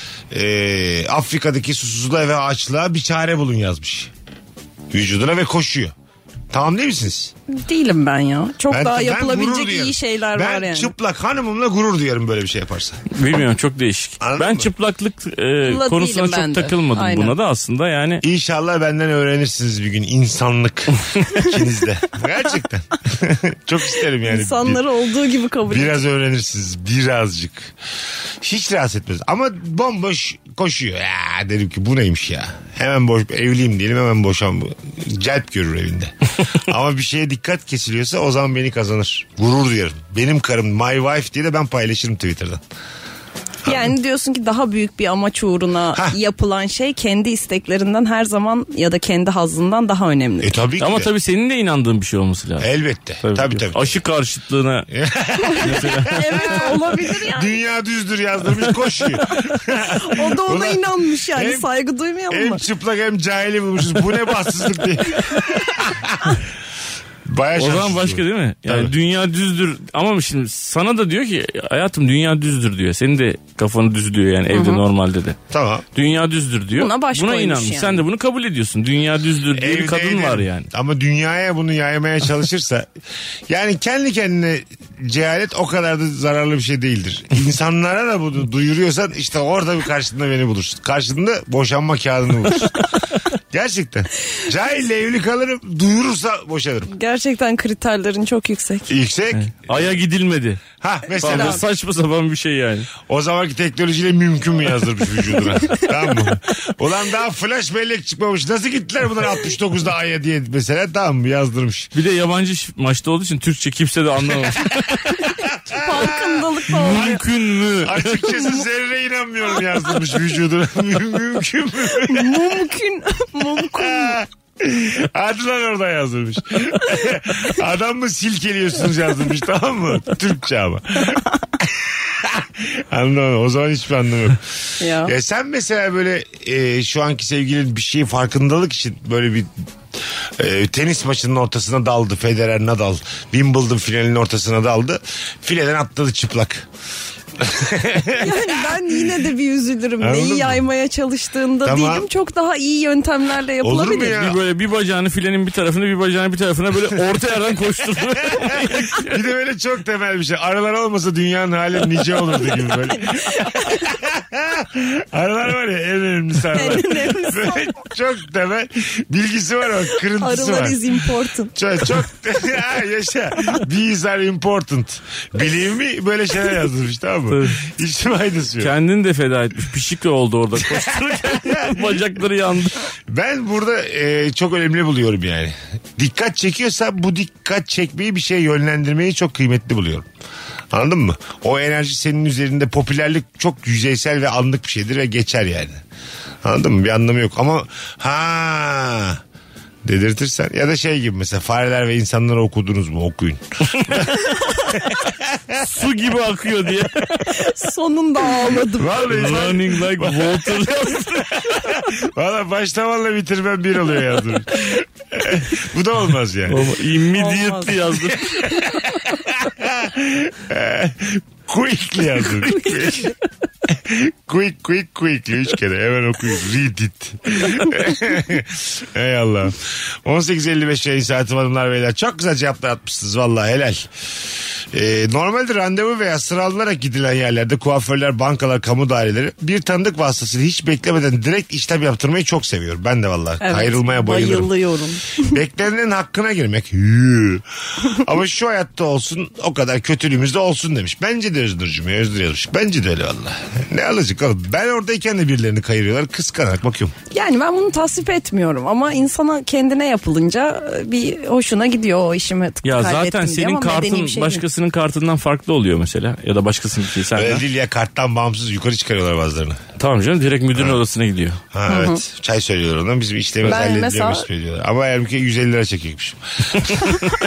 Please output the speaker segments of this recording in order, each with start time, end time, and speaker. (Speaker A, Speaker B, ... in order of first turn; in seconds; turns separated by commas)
Speaker A: 0.3-4.1, Speaker A: 4.9-5.9, Speaker A: 6.5-7.3, Speaker B: 7.5-10.9, Speaker A: 8.7-13.0, Speaker C: 13.1-18.2, Speaker A: 14.2-14.7, Speaker B: 15.7-17.4, Speaker A: 18.2-24.9, Speaker B: 24.2-26.0, Speaker A: 25.7-27.7, Speaker A: 28.4-42.6, Speaker B: 43.7-50.5, Speaker A: 50.4-51.1, Speaker C: 50.8-52.7, Speaker A: 52.6-54.0, Speaker C: 53.2-54.9, Speaker A: 54.9-61.7, Speaker B: 55.4-57.5, Speaker C: 55.6-56.2, Speaker B: 59.8-62.6, Speaker A: 62.3-66.4, Speaker A: 67.2-68.9, Speaker C: 67.6-75.4, Speaker B: 74.5-74.8, Speaker A: 75.5-75.9, Speaker C: 76.0-80.7, Speaker B: 76.8-78.0, Speaker A: 79.5-82.9, Speaker A: 83.5-93.0, Speaker A: 93.5-96.9, Speaker B: 96.9-98.9, Speaker A: 98.9-99.9, Speaker C: 99.3-100.6, Speaker A: 100.8-101.6, Speaker C: 101.2-102.9, Speaker B: 101.2-101.6, Speaker A: 103.1-111.9, Speaker C: 112.0-115.3, Speaker A: 115.7-117.2, Speaker B: 115.7-117.2, Speaker C: 116.7-118.3, Speaker A: 117.8-122.6, Speaker B: 122.1-124.2, Speaker A: 123.6-139.5, Speaker B: 134.8-135.1, Speaker A: 140.4-146.7, Speaker A: 147.4-149.1, Speaker B: 148.2-154.2, Speaker A: 150.0-150.6, Speaker A: 151.6-152.1, Speaker A: 153.6-154.4, Speaker C: 154.1-159.2, Speaker A: 158.2-170.8, Speaker B: 166.6-167.7, Speaker B: 170.2-171.6, Speaker A: 171.6-178.7, Speaker C: 177.3-177.6, Speaker C: 178.6-182.8, Speaker A: 180.6-182.1, Speaker A: 183.1-190.1, Speaker A: 190.7-195.8, Speaker A: 196.4-199.2, Speaker A: 199.8-205.6, Speaker C: 205.6-207.4, Speaker B: 207.3-209.0, Speaker A: 208.8-216.7, Speaker C: 209.0-211.5, Speaker C: 216.5-218.3, Speaker B: 217.2-218.9, Speaker A: 218.6-223.1, Speaker A: 223.7-233.9, Speaker A: 234.7-244.5, Speaker B: 243.4-245.3, Speaker A: 245.2-256.9, Speaker B: 257.1-264.4, Speaker C: 262.6-267.4, Speaker A: 267.1-269.6, Speaker C: 269.8-271.4, Speaker A: 270.6-270.8, Speaker A: 271.5-276.9, Speaker B: 271.7-272.0, Speaker B: 273.5-274.3